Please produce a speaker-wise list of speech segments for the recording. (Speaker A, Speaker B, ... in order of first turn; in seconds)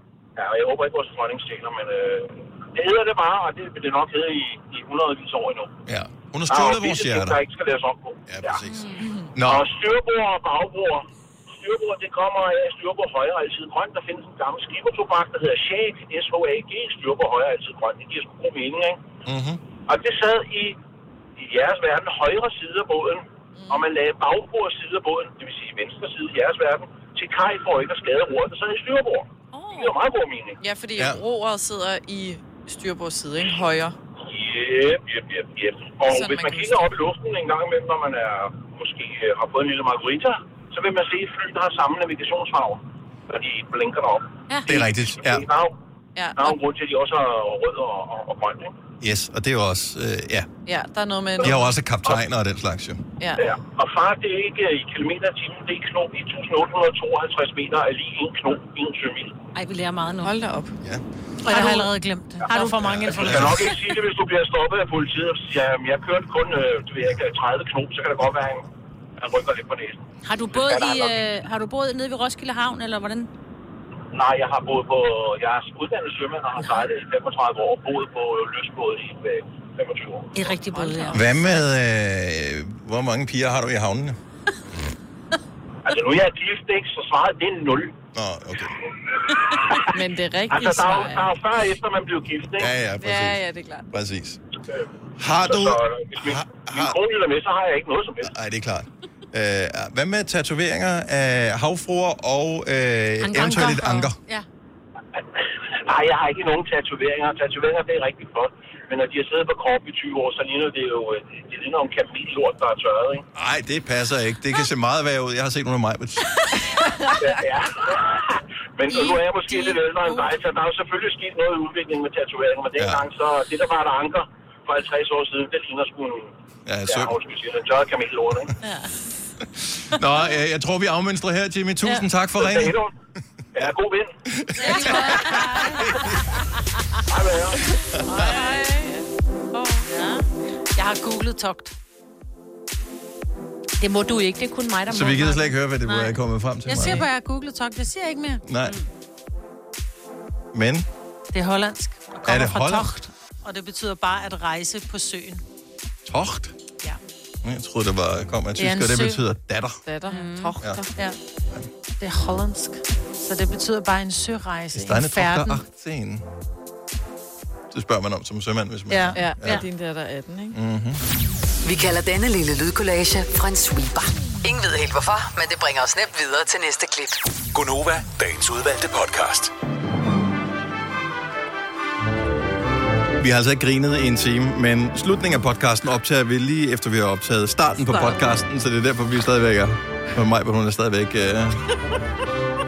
Speaker A: 0.4-5.7, 6.5-8.6, 9.4-19.0, 19.9-20.8, 21.4-30.6, 34.2-45.8, 46.4-48.8, 53.4-59.3, 63.3-68.7, 69.2-71.2, 74.1-80.3, 85.8-88.0, 89.3-89.9, 90.5-92.7, 95.4-98.3, 105.2-113.2, 117.2-126.3, 126.9-128.5, 132.4-132.9, 133.6-134.1, 137.1-137.7
Speaker B: 5.9-7.4, 8.3-9.7, 19.2-19.6, 44.7-45.5, 49.0-50.5, 51.4-53.0, 62.8-63.7, 81.1-84.2, 88.1-88.8, 92.6-94.4, 95.2-97.0, 98.2-104.2, 113.3-116.4, 122.8-123.1, 126.7-127.2, 129.6-132.8, 134.3-136.4, 137.7-138.3, 144.9-147.1, 148.4-148.8, 150.5-150.9, 152.2-152.9, 156.1-156.6, 157.4-159.8, 164.7-166.2, 167.7-169.6, 170.5-171.0, 183.2-191.6
Speaker C: 8.6-9.1, 59.5-60.4, 61.5-61.9, 62.5-63.7, 70.2-73.3, 80.3-81.2, 103.2-104.5, 128.6-128.9, 134.6-136.2, 138.1-138.7, 139.8-140.3, 143.8-146.2, 160.1-160.6, 168.9-169.7
Speaker D: 9.0-9.3, 23.6-23.9, 29.5-30.0, 30.6-34.0, 36.1-36.9, 46.1-46.6, 50.7-51.7, 53.2-53.5, 60.2-60.8, 80.6-81.6, 89.8-91.3, 93.0-93.9, 116.8-117.4, 138.1-139.9, 159.9-160.9, 169.2-170.6, 187.9-188.2
Speaker E: 61.4-63.6, 134.6-136.0, 140.8-141.8, 146.7-148.4, 151.3-155.4, 158.6-159.2, 162.0-165.6
Speaker F: 171.6-177.2
Speaker G: 177.5-179.5